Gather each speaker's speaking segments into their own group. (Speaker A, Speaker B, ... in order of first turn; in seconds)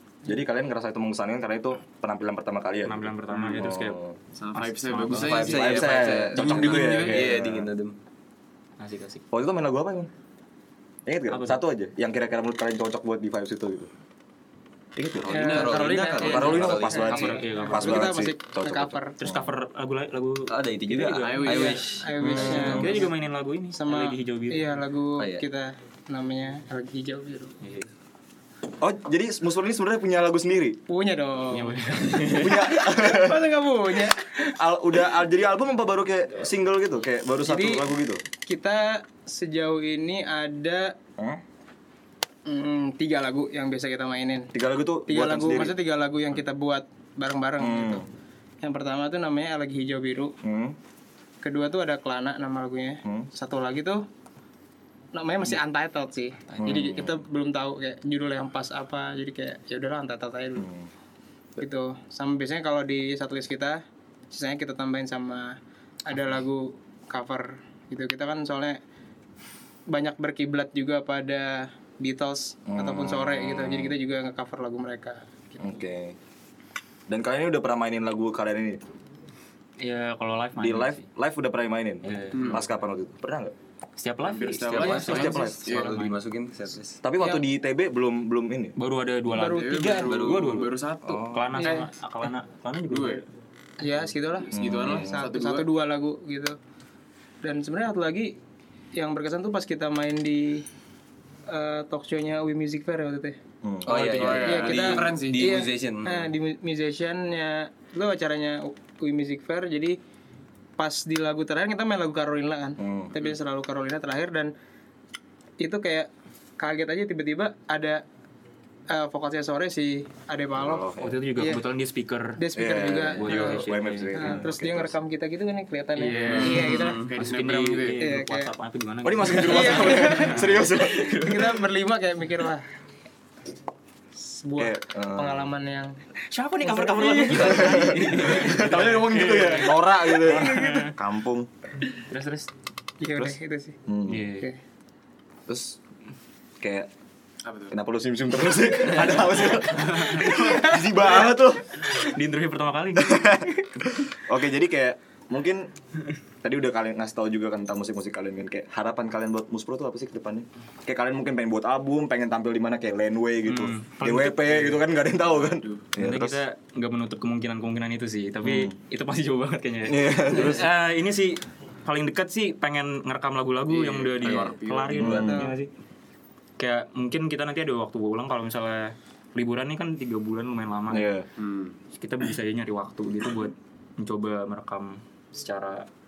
Speaker A: 0.2-4.2, 5.5-7.7, 9.3-10.1, 11.1-13.9, 14.9-15.5, 16.2-19.5, 22.2-22.9, 28.8-30.8, 32.2-33.5, 34.5-38.2, 44.5-45.8, 47.6-48.1, 50.4-50.8, 56.6-57.2, 60.6-60.9, 72.7-74.0, 75.6-76.2, 77.1-78.8, 80.6-83.5, 85.0-85.9, 87.0-88.8, 91.0-91.4, 94.5-95.2, 103.6-104.2, 112.8-113.1, 120.5-121.2, 122.5-124.9, 129.0-131.3, 134.6-135.5, 137.1-141.5, 143.9-144.3, 145.5-145.8, 146.6-146.9, 147.7-151.9, 152.9-155.7, 156.4-166.4, 168.4-168.7, 169.8-170.7, 174.9-175.5, 180.9-181.2
Speaker B: 2.8-4.0, 4.5-5.7, 8.8-9.2, 11.3-11.6, 15.7-18.1, 19.2-24.7, 27.6-27.9, 31.5-32.6, 79.8-81.0, 82.0-82.6, 84.0-86.1, 88.8-90.7, 91.3-93.2, 103.9-104.2, 121.0-122.4, 123.2-124.4, 126.2-130.7, 136.3-140.9, 141.9-142.5, 144.1-144.5, 151.8-153.4, 163.4-164.8, 166.0-175.7, 176.6-181.1, 181.9-185.9
Speaker C: 3.3-3.6, 4.3-7.3, 15.2-16.4, 21.2-22.1, 82.3-82.6, 84.2-86.0, 89.4-91.3, 92.9-93.2, 94.5-95.7, 103.9-105.7, 126.0-128.0, 147.4-147.8, 165.3-165.8, 173.7-175.5, 181.4-181.8
Speaker D: 5.1-8.0, 15.3-17.3, 20.5-22.9, 25.2-25.4, 84.6-87.0, 89.9-90.7, 103.8-106.3, 130.8-131.4, 137.3-138.6
Speaker E: 15.3-19.1, 21.5-23.1, 23.7-27.5, 30.9-34.3, 37.4-37.9, 38.4-41.0, 42.5-44.5, 45.1-48.0, 48.6-50.4, 51.4-54.0, 55.1-60.7, 61.6-68.8, 69.9-75.8, 89.3-90.1, 91.6-91.9, 93.8-96.5, 97.4-98.4, 98.9-100.7, 101.5-103.3, 104.4-110.0, 110.8-114.5, 115.6-118.0, 118.9-121.6, 122.4-127.0, 128.0-128.5, 129.4-130.4, 131.1-132.6, 134.2-136.0, 136.6-137.7, 140.2-140.9, 143.0-143.8, 175.2-175.5